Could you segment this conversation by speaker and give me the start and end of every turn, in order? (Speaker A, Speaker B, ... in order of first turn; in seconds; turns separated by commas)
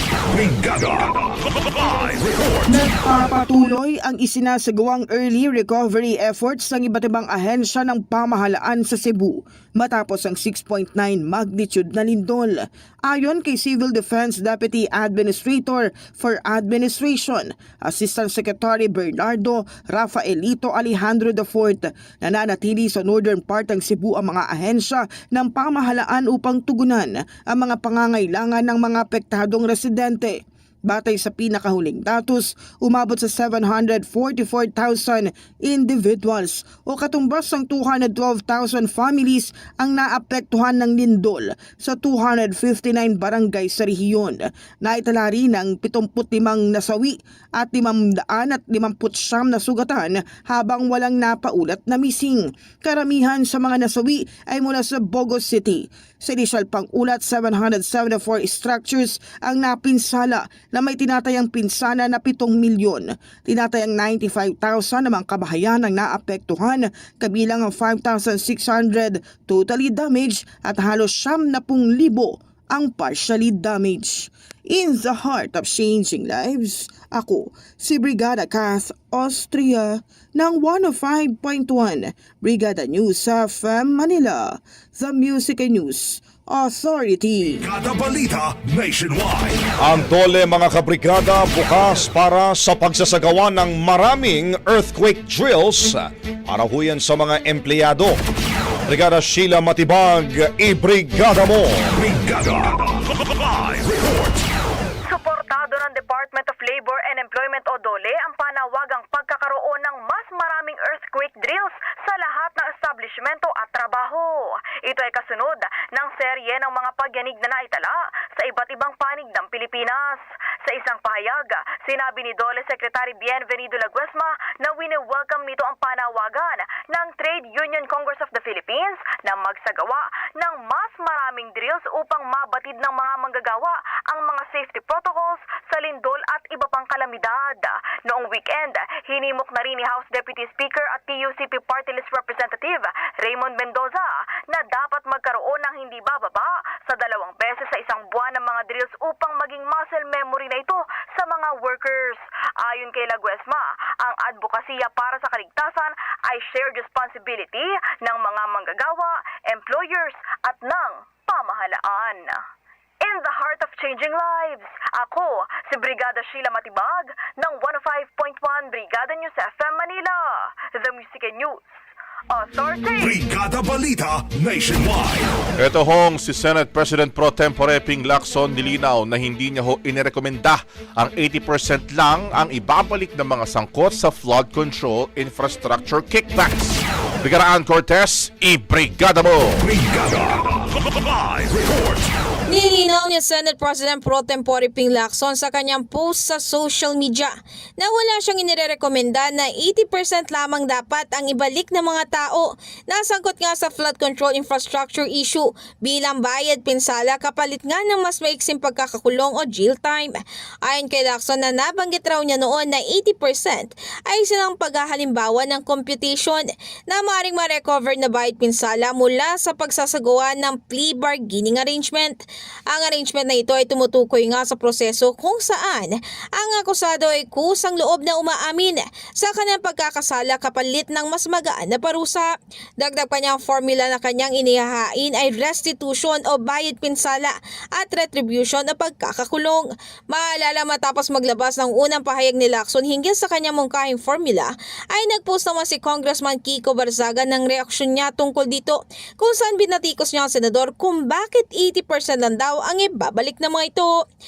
Speaker A: 0.3-2.8, Speaker B: 2.7-87.6, Speaker A: 87.6-89.6, Speaker C: 89.8-98.2, Speaker C: 98.9-101.8, Speaker A: 102.0-104.4, Speaker D: 105.1-114.3, Speaker D: 114.9-162.4, Speaker D: 163.0-170.2, Speaker D: 170.8-171.6, Speaker D: 172.3-173.1, Speaker A: 173.0-175.3, Speaker E: 175.6-189.6, Speaker A: 189.6-192.1, Speaker F: 192.5-254.0